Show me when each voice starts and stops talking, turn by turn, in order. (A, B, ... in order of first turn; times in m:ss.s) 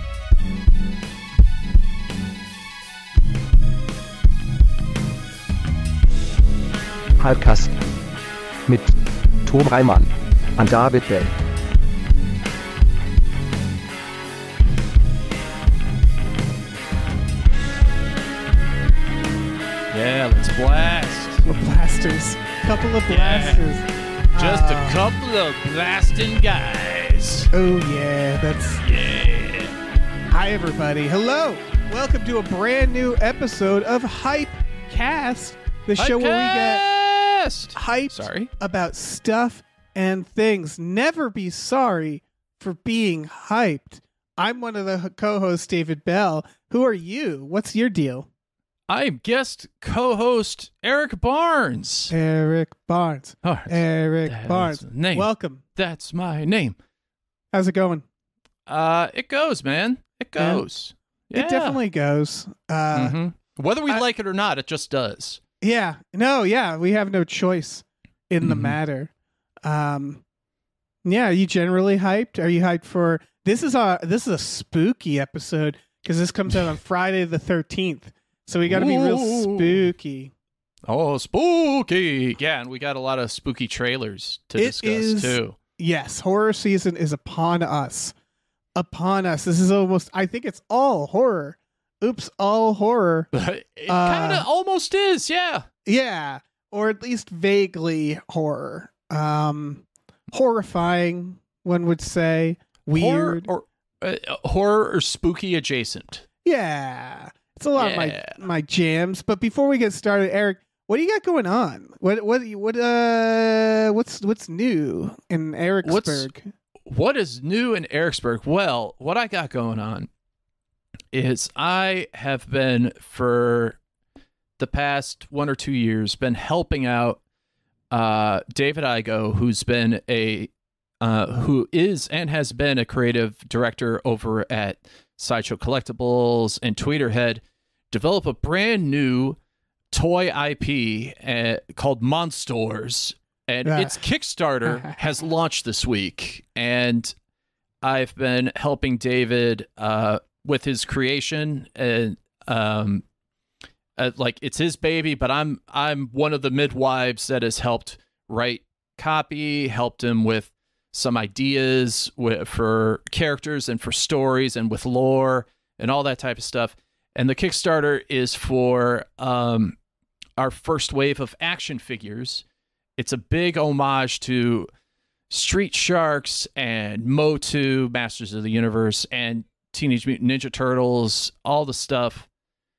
0:07.2-0:07.8 A
0:08.7-0:11.3 A
0:19.9-0:21.5 B
0:21.4-0:25.0 C
0:23.1-0:23.6 B
0:24.3-0:27.5 B
0:27.5-0:28.8 C
0:28.8-0:29.7 B
0:30.3-0:36.8 C
0:36.0-0:38.5 B
0:37.7-0:48.3 C
0:48.9-0:52.1 B
0:52.1-0:55.6 C
0:53.4-0:56.8 B
0:57.5-0:58.0 C
0:58.7-1:01.8 B
1:00.4-1:00.6 C
1:01.3-1:03.2 C
1:02.9-1:05.4 B
1:05.6-1:09.1 C
1:08.4-1:08.8 B
1:09.6-1:10.2 C
1:11.0-1:20.3 C
1:18.7-1:19.9 B
1:20.9-1:25.6 B
1:24.6-1:28.1 C
1:28.7-1:33.3 C
1:33.3-1:35.7 B
1:33.9-1:34.4 C
1:35.8-1:43.5 C
1:42.9-1:46.2 B
1:46.4-1:56.5 C
1:47.8-1:48.4 B
1:55.8-1:56.3 B
1:56.8-2:00.1 B
2:01.1-2:03.8 B
2:04.6-2:07.2 B
2:07.9-2:10.5 B
2:11.0-2:19.4 B
2:19.9-2:27.1 B
2:23.6-2:24.0 C
2:24.6-2:24.9 C
2:27.8-2:33.0 B
2:34.0-2:49.8 B
2:50.4-2:52.4 B
2:53.0-2:54.7 B
2:55.3-3:02.3 B